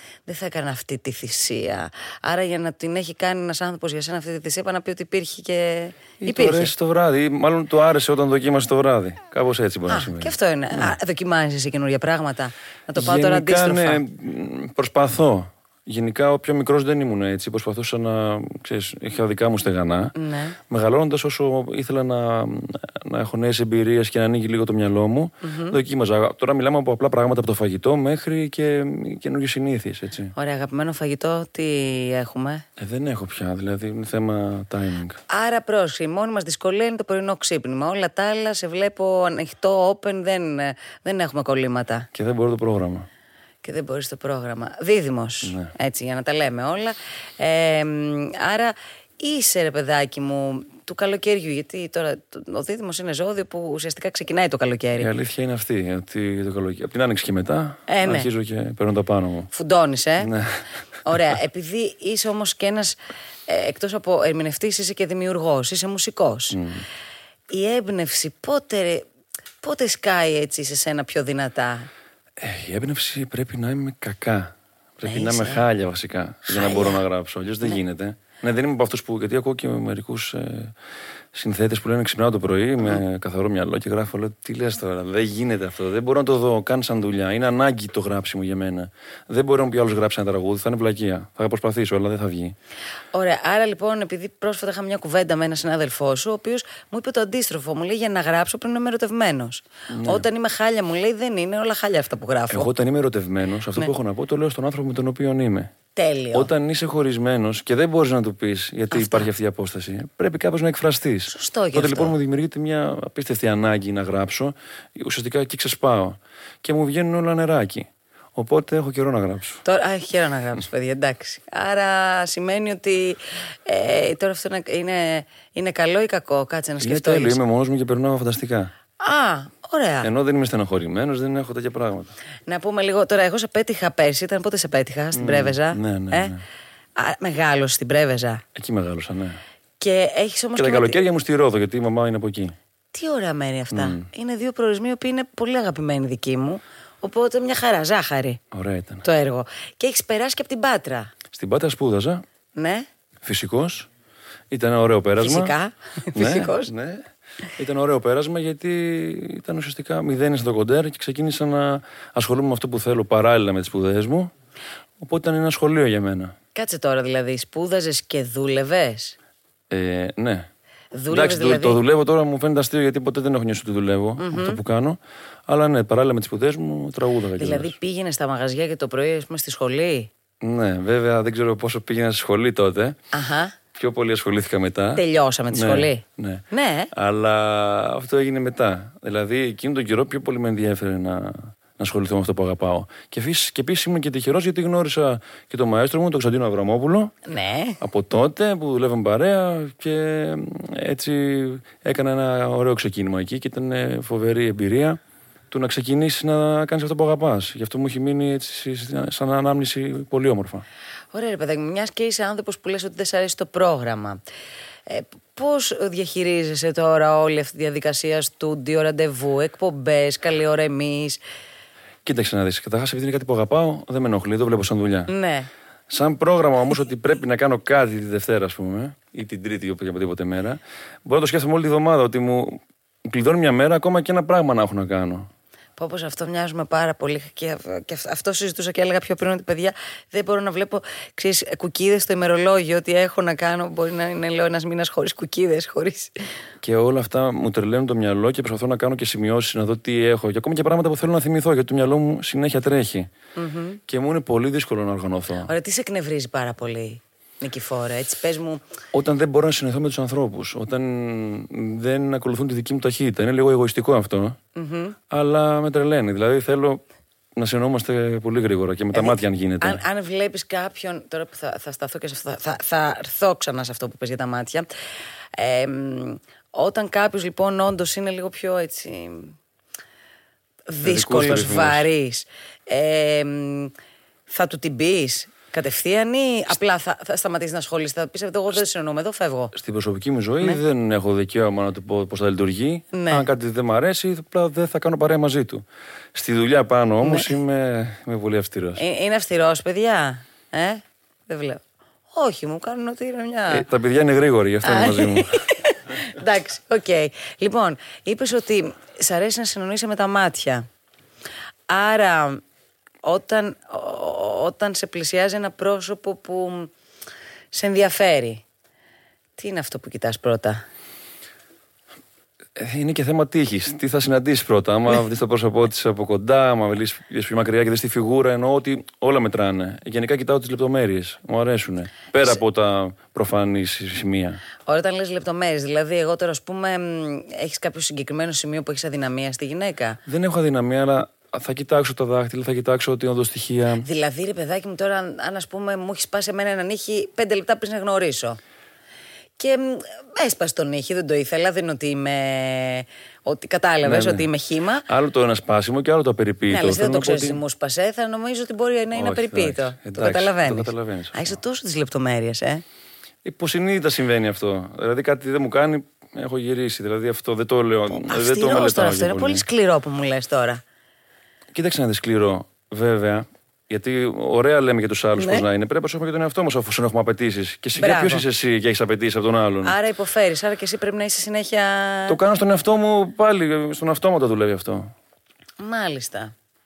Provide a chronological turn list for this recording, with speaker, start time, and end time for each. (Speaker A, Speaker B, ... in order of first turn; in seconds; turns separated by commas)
Speaker A: 0.2-6.7, Speaker B: 6.2-10.9, Speaker A: 9.9-14.0, Speaker B: 12.9-20.1, Speaker A: 20.1-20.6, Speaker B: 20.7-30.3, Speaker A: 25.4-25.8, Speaker A: 30.3-32.6, Speaker B: 32.8-35.2, Speaker A: 35.3-42.1, Speaker B: 42.1-43.1, Speaker A: 43.6-55.1, Speaker B: 45.4-45.7, Speaker B: 55.0-59.5, Speaker A: 57.9-58.3, Speaker A: 59.5-60.3, Speaker B: 60.2-60.6, Speaker A: 61.0-66.6, Speaker B: 66.5-66.8, Speaker A: 67.5-69.0, Speaker A: 69.6-71.9, Speaker B: 72.4-80.7, Speaker A: 75.0-75.6, Speaker A: 76.5-77.0, Speaker B: 81.3-92.5, Speaker A: 93.1-102.7, Speaker B: 99.9-100.2, Speaker B: 102.5-105.7, Speaker A: 105.9-106.5, Speaker B: 106.3-119.6, Speaker A: 108.9-109.3, Speaker A: 111.3-112.2, Speaker A: 119.6-127.4, Speaker B: 126.8-128.7, Speaker A: 129.0-130.1, Speaker B: 130.0-132.1, Speaker A: 132.5-136.3, Speaker B: 135.1-136.4, Speaker A: 136.9-138.4, Speaker B: 138.6-139.4, Speaker A: 139.8-141.0, Speaker B: 140.6-142.5, Speaker A: 142.9-148.4, Speaker B: 143.7-144.0, Speaker B: 148.5-149.0, Speaker A: 149.0-151.1, Speaker B: 151.3-152.2, Speaker A: 152.5-152.8, Speaker B: 153.2-153.9, Speaker B: 154.5-155.5, Speaker A: 155.2-156.7, Speaker B: 156.2-157.0, Speaker B: 157.6-164.3, Speaker B: 165.0-166.3, Speaker A: 166.5-169.2, Speaker B: 169.7-170.5, Speaker A: 170.9-171.8, Speaker B: 171.1-177.8, Speaker A: 174.2-174.6, Speaker A: 177.4-180.1, Speaker B: 180.4-183.0, Speaker A: 183.1-183.5, Speaker B: 183.7-197.1, Speaker A: 184.9-186.9, Speaker A: 197.2-197.8, Speaker B: 197.8-205.0, Speaker B: 205.5-210.6, Speaker A: 211.1-214.2, Speaker A: 214.9-221.2, Speaker B: 222.0-225.1, Speaker A: 225.1-225.5, Speaker B: 225.9-235.3, Speaker A: 235.8-246.1, Speaker B: 246.6-253.1, Speaker A: 253.3-253.8, Speaker B: 253.9-255.5, Speaker A: 255.4-258.6, Speaker B: 258.9-264.4, Speaker A: 264.6-265.0, Speaker B: 265.1-266.8, Speaker B: 267.4-269.8, Speaker A: 268.9-274.7, Speaker A: 275.4-279.4, Speaker A: 280.7-283.7, Speaker B: 280.8-281.9, Speaker A: 284.3-289.5, Speaker B: 289.5-295.6, Speaker A: 292.9-293.3, Speaker B: 296.1-298.8, Speaker A: 297.0-297.3, Speaker A: 298.8-303.7, Speaker B: 303.5-305.4, Speaker A: 304.6-310.6, Speaker A: 311.7-312.4, Speaker A: 313.0-316.7, Speaker A: 317.5-318.4, Speaker A: 319.4-320.6, Speaker B: 322.6-334.4, Speaker A: 334.6-340.0, Speaker B: 340.1-343.9, Speaker A: 343.8-348.4, Speaker A: 349.4-354.9, Speaker B: 353.8-354.3, Speaker B: 354.9-357.4, Speaker A: 356.5-362.6, Speaker B: 358.9-361.4, Speaker B: 363.2-369.4, Speaker A: 367.9-370.6, Speaker B: 371.5-379.8, Speaker A: 375.1-375.4, Speaker A: 377.8-378.2, Speaker A: 379.6-382.2, Speaker B: 382.1-384.9, Speaker A: 385.6-386.3